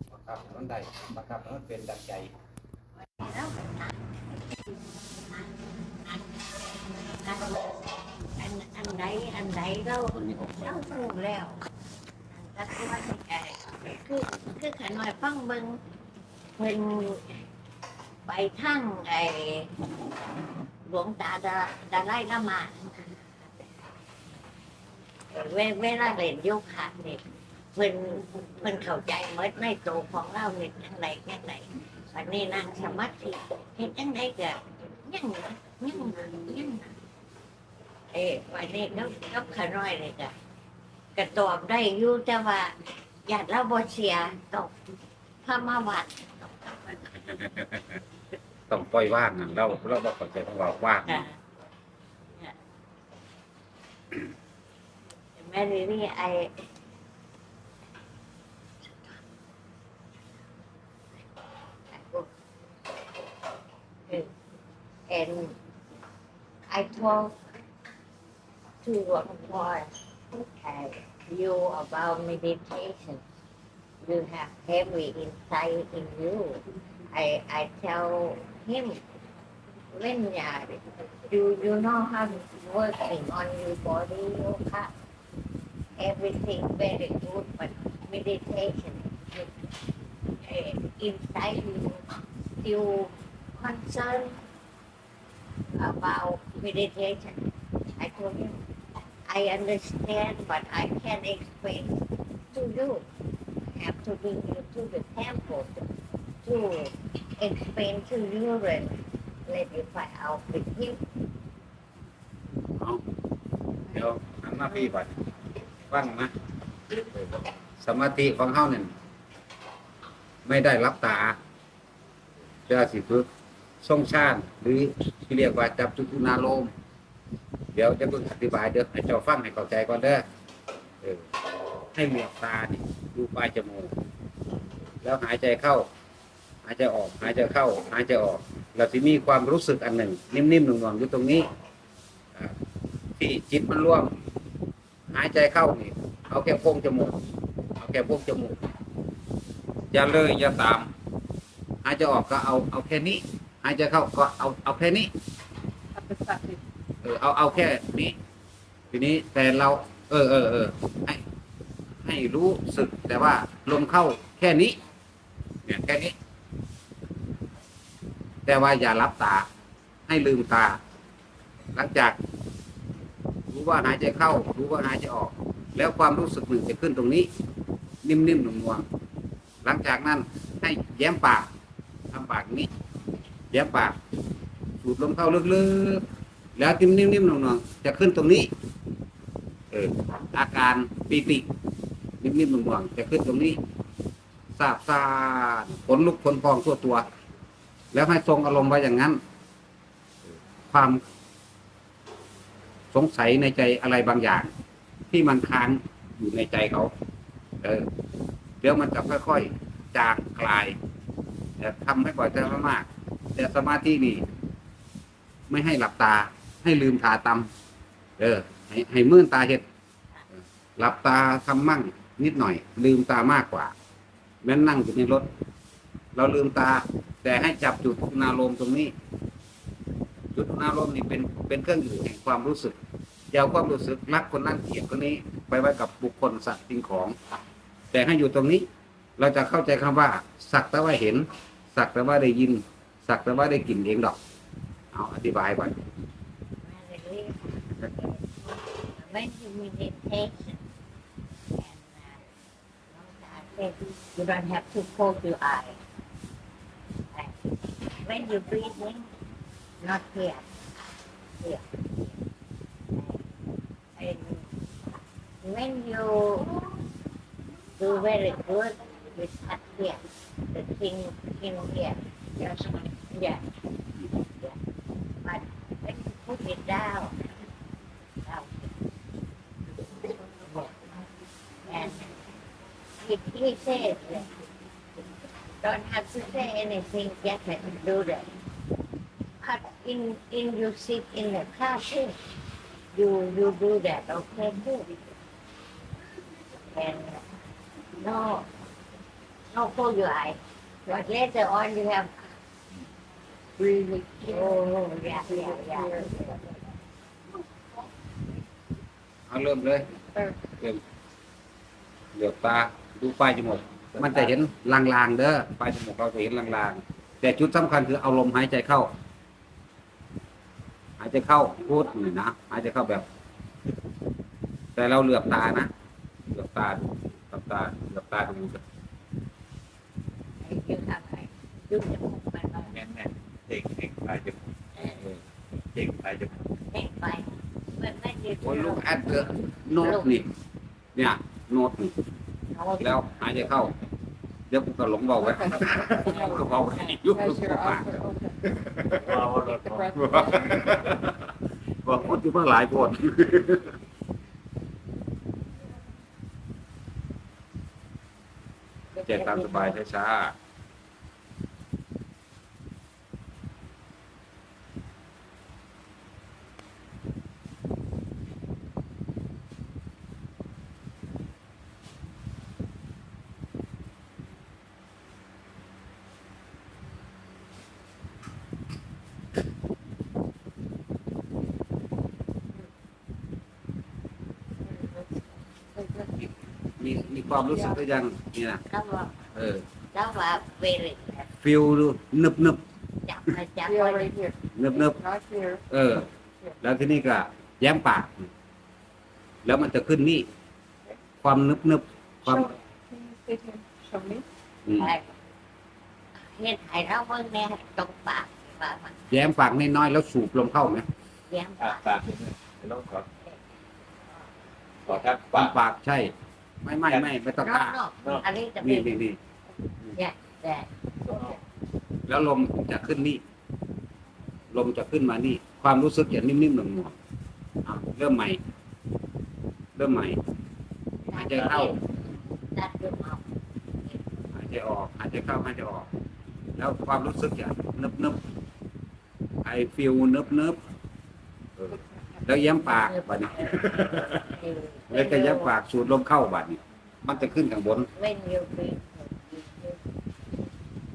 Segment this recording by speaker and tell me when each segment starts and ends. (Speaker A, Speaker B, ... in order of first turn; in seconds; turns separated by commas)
Speaker A: 0.1-2.3, Speaker B: 3.0-11.6, Speaker A: 10.1-11.0, Speaker B: 12.3-15.8, Speaker B: 16.6-17.2, Speaker B: 18.2-19.7, Speaker B: 20.8-23.2, Speaker B: 25.3-27.2, Speaker B: 27.7-36.9, Speaker B: 38.1-40.3, Speaker B: 41.1-44.7, Speaker B: 45.4-47.1, Speaker A: 47.2-48.0, Speaker A: 48.7-51.2, Speaker B: 51.1-51.4, Speaker B: 55.4-56.6, Speaker B: 61.9-62.3, Speaker B: 64.1-64.3, Speaker B: 65.1-65.5, Speaker B: 66.7-67.4, Speaker B: 68.8-69.9, Speaker B: 70.5-73.2, Speaker B: 74.0-79.0, Speaker B: 79.9-84.9, Speaker B: 86.0-89.8, Speaker B: 90.4-94.4, Speaker B: 95.8-97.4, Speaker B: 98.0-98.6, Speaker B: 99.3-103.0, Speaker B: 103.8-105.8, Speaker B: 106.4-111.0, Speaker A: 113.9-115.2, Speaker A: 115.9-116.3, Speaker A: 117.1-118.9, Speaker A: 120.4-121.4, Speaker A: 122.7-123.2, Speaker A: 123.8-126.7, Speaker A: 127.7-130.2, Speaker A: 131.0-131.3, Speaker A: 131.9-133.9, Speaker A: 135.0-135.9, Speaker A: 136.6-141.5, Speaker A: 143.2-144.1, Speaker A: 145.1-147.2, Speaker A: 147.8-148.6, Speaker A: 149.9-150.9, Speaker A: 151.8-155.1, Speaker C: 155.9-156.6, Speaker A: 157.0-158.1, Speaker A: 158.9-161.2, Speaker A: 162.0-164.8, Speaker A: 165.7-166.1, Speaker A: 168.4-169.5, Speaker A: 170.1-170.8, Speaker A: 171.7-172.2, Speaker A: 173.5-177.3, Speaker A: 178.0-178.8, Speaker A: 179.6-181.5, Speaker A: 182.1-182.7, Speaker A: 183.5-184.0, Speaker A: 184.8-186.0, Speaker A: 186.6-188.5, Speaker A: 189.7-191.5, Speaker A: 192.2-193.6, Speaker A: 194.5-197.1, Speaker A: 197.9-199.2, Speaker A: 200.7-201.0, Speaker A: 202.9-204.5, Speaker A: 205.1-206.9, Speaker A: 208.6-210.8, Speaker A: 211.6-214.2, Speaker A: 215.5-217.5, Speaker A: 218.2-219.6, Speaker A: 220.8-223.7, Speaker A: 224.4-225.3, Speaker A: 226.1-228.9, Speaker A: 230.3-232.8, Speaker A: 233.3-237.1, Speaker A: 237.9-238.7, Speaker A: 239.2-244.2, Speaker A: 244.9-245.8, Speaker B: 246.6-250.6, Speaker B: 251.5-252.3, Speaker B: 252.9-255.8, Speaker B: 257.1-259.1, Speaker B: 259.8-260.6, Speaker B: 261.4-262.1, Speaker B: 262.9-263.3, Speaker B: 264.0-264.6, Speaker B: 265.4-266.5, Speaker B: 267.8-270.0, Speaker B: 270.5-272.0, Speaker C: 272.4-272.9, Speaker B: 273.1-273.4, Speaker B: 274.2-274.6, Speaker B: 275.2-277.1, Speaker B: 278.2-278.7, Speaker B: 280.4-280.7, Speaker B: 281.6-282.2, Speaker B: 283.0-284.3, Speaker B: 285.6-288.3, Speaker B: 289.4-292.1, Speaker B: 292.9-294.9, Speaker B: 296.6-297.2, Speaker B: 298.0-298.5, Speaker B: 299.5-302.3, Speaker C: 303.6-304.6, Speaker B: 304.2-306.4, Speaker C: 305.2-306.5, Speaker A: 309.3-309.9, Speaker A: 312.1-318.9, Speaker A: 321.0-323.1, Speaker A: 324.8-325.7, Speaker A: 326.3-328.6, Speaker B: 330.4-332.8, Speaker D: 332.8-334.4, Speaker B: 334.8-335.0, Speaker D: 335.7-336.3, Speaker B: 336.7-338.9, Speaker A: 338.4-340.3, Speaker B: 339.8-340.2, Speaker A: 340.9-342.0, Speaker B: 342.5-342.8, Speaker A: 342.8-343.8, Speaker A: 344.5-347.9, Speaker C: 345.2-350.7, Speaker B: 346.1-347.0, Speaker A: 348.5-349.1, Speaker D: 349.1-350.0, Speaker A: 350.0-353.7, Speaker C: 358.9-359.7, Speaker A: 359.1-360.3, Speaker C: 384.6-386.3, Speaker A: 386.8-388.6, Speaker C: 387.4-387.9, Speaker B: 388.7-389.2, Speaker A: 389.3-389.6, Speaker B: 389.9-391.3, Speaker A: 391.4-392.6, Speaker B: 393.0-394.1, Speaker C: 393.6-395.6, Speaker A: 394.6-395.0, Speaker A: 395.7-396.1, Speaker A: 396.6-398.3, Speaker A: 399.4-400.3, Speaker A: 401.2-402.5, Speaker C: 402.2-404.2, Speaker A: 404.6-404.9, Speaker B: 404.8-405.1, Speaker B: 406.2-409.0, Speaker A: 409.1-410.9, Speaker B: 411.3-412.0, Speaker D: 411.6-413.1, Speaker D: 414.9-415.5, Speaker A: 415.3-416.1, Speaker A: 416.6-417.8, Speaker B: 417.3-418.9, Speaker A: 418.6-419.2, Speaker B: 419.9-420.7, Speaker C: 421.1-421.3, Speaker A: 422.1-423.2, Speaker A: 424.5-426.9, Speaker A: 427.6-428.4, Speaker A: 429.8-430.2, Speaker B: 431.1-431.8, Speaker A: 431.1-431.8, Speaker B: 432.5-433.2, Speaker A: 434.3-435.9, Speaker A: 436.6-438.2, Speaker A: 439.4-440.6, Speaker C: 441.7-442.3, Speaker A: 442.2-444.2, Speaker B: 442.6-445.5, Speaker A: 444.9-447.9, Speaker B: 447.9-449.8